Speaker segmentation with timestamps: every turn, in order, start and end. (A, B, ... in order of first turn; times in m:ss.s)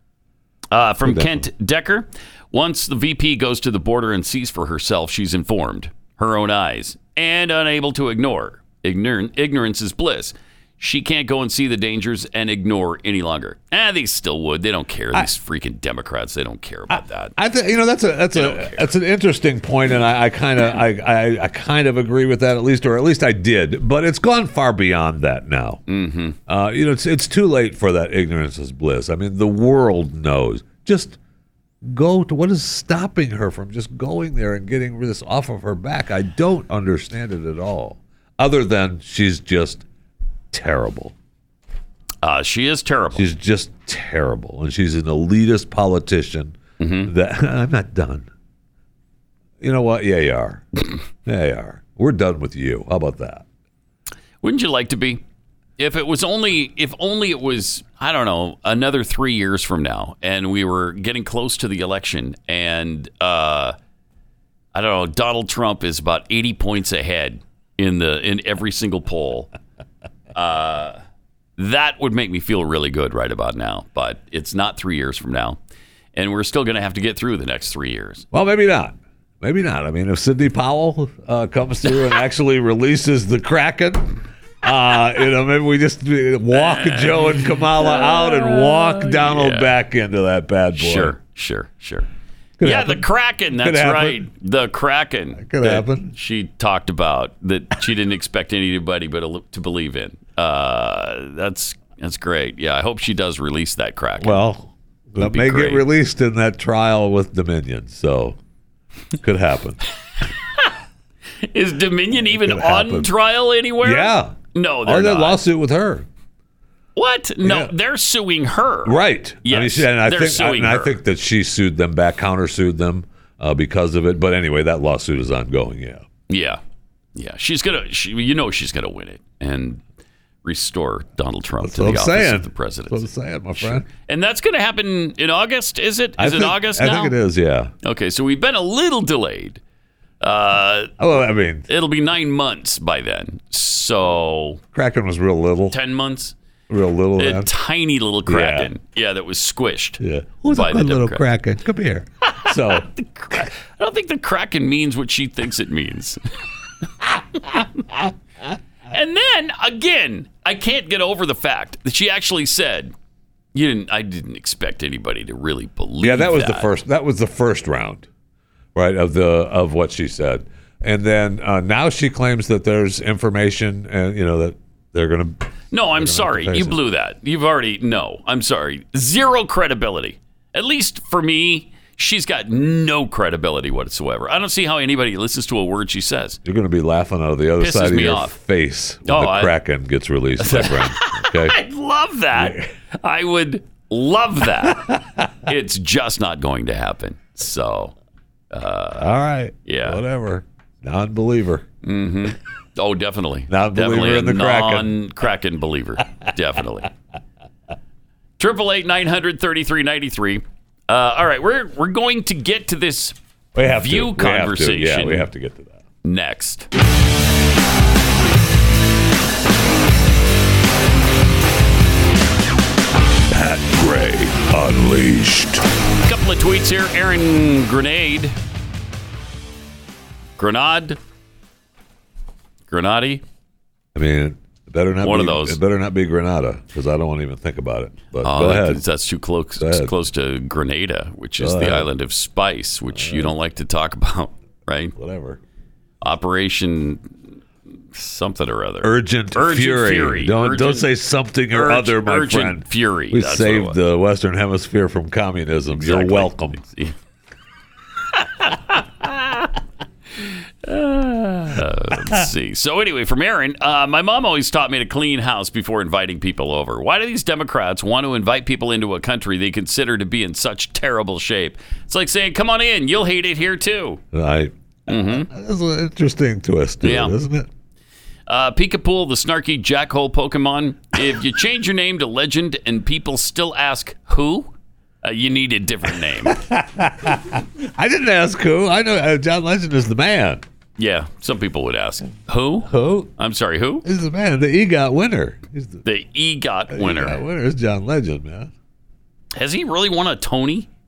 0:00.7-0:17.4 A
0:01.0-0:01.5 B
0:16.9-0:25.8 B
0:18.3-0:18.9 A
0:25.9-0:26.4 A
0:26.5-0:31.2 B
0:31.8-0:39.8 B
0:40.5-0:41.1 B
0:42.2-0:43.3 A
0:43.2-0:48.3 B
0:46.8-0:47.1 A
0:49.6-0:50.6 B
0:51.2-0:53.4 B
0:54.4-0:55.2 A
0:55.8-1:03.8 A
1:04.7-1:09.5 A
1:10.4-1:11.0 A
1:11.6-1:15.6 A
1:16.2-1:18.3 A
1:18.3-1:31.2 B
1:26.5-1:29.7 A
1:30.7-1:32.1 A
1:32.6-1:34.3 B
1:32.6-1:44.4 A
1:35.4-1:36.1 B
1:44.2-1:48.4 B
1:45.2-1:45.9 A
1:49.2-1:49.8 B
1:51.5-1:55.4 A
1:52.2-1:53.1 B
1:53.8-1:56.1 B
1:57.0-2:01.0 A
1:57.4-1:57.7 B
1:58.9-2:06.1 B
2:06.3-2:06.6 A
2:07.2-2:09.8 A
2:10.4-2:17.2 A
2:11.6-2:13.9 B
2:16.2-2:17.7 B
2:17.8-2:19.6 A
2:20.2-2:20.9 A
2:21.0-2:21.7 B
2:21.7-2:24.6 A
2:24.7-2:25.8 B
2:25.7-2:26.4 A
2:26.7-2:27.5 B
2:27.2-2:31.2 A
2:28.3-2:28.7 B
2:30.0-2:32.9 B
2:32.3-2:36.2 A
2:38.9-2:42.9 A
2:43.5-2:46.7 A
2:46.0-2:48.1 B
2:48.8-2:55.4 B
2:55.7-3:06.4 A
2:56.0-2:56.8 B
3:06.4-3:11.6 B
3:07.6-3:08.4 A
3:09.0-3:09.6 A
3:10.4-3:18.0 A
3:12.3-3:12.7 B
3:14.7-3:15.2 B
3:18.5-3:19.1 A
3:19.0-3:21.6 B
3:19.6-3:20.0 A
3:21.8-3:26.9 A
3:23.5-3:24.9 B
3:28.4-3:35.3 A
3:33.6-3:35.8 B
3:36.0-3:36.7 A
3:43.3-3:45.6 B
3:46.0-3:48.4 A
3:50.4-3:51.0 A
3:52.7-3:53.2 A
3:54.0-3:58.8 B
3:55.0-3:55.6 A
3:58.2-4:05.0 A
3:59.6-3:59.9 B
4:01.4-4:01.9 B
4:02.9-4:03.3 B
4:05.0-4:05.4 B
4:06.0-4:07.1 A
4:07.9-4:10.9 A
4:08.8-4:16.6 B
4:11.5-4:13.8 A
4:15.8-4:17.0 A
4:18.4-4:19.4 A
4:20.2-4:34.0 A
4:34.1-4:37.5 B
4:34.9-4:35.3 A
4:36.8-4:37.2 A
4:38.3-4:46.4 A
4:46.3-4:50.4 B
4:50.8-4:53.8 A
4:52.7-4:53.1 B
4:53.8-4:55.8 B
4:55.8-4:57.2 A
4:56.7-4:58.5 B
4:59.4-5:00.7 A